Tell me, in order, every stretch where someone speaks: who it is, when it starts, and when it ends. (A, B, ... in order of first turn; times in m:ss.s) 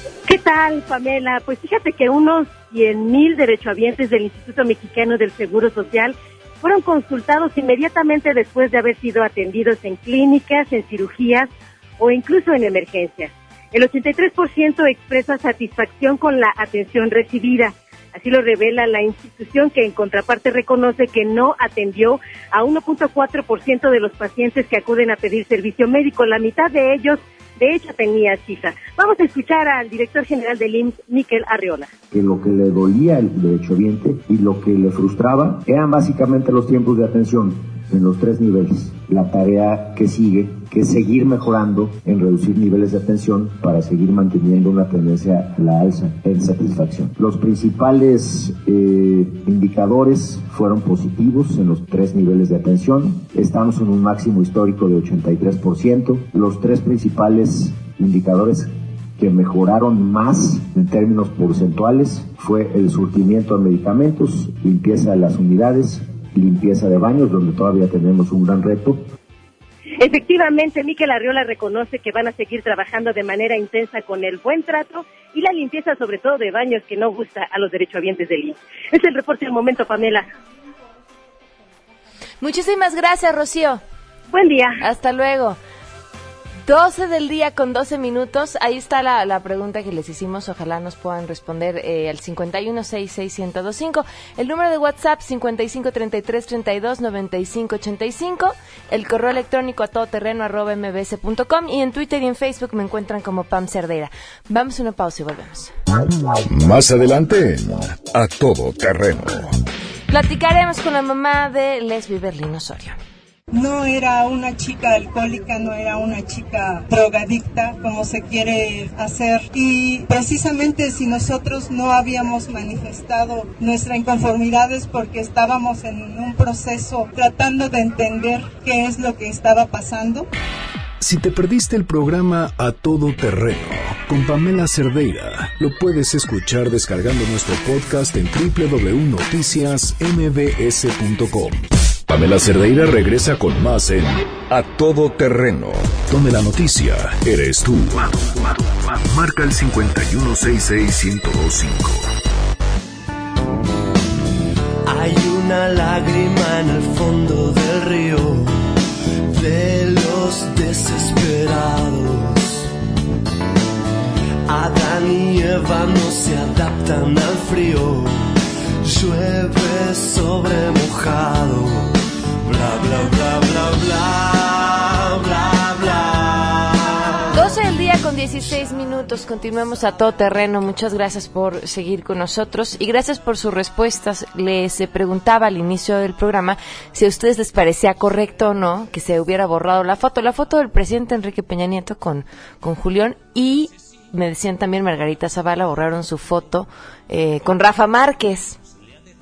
0:00.2-0:31.9 A
0:32.1-1:09.0 B
1:10.0-1:20.3 A
1:22.4-1:23.8 C
1:24.3-1:24.8 A
1:24.8-1:25.6 C
1:26.6-1:45.7 C
1:46.4-1:49.5 D
1:50.1-1:53.0 C
1:53.5-2:10.3 E
2:11.0-2:32.1 D
2:34.8-2:38.6 F
2:39.3-2:42.7 F
2:44.5-2:57.2 F
2:57.3-3:18.6 C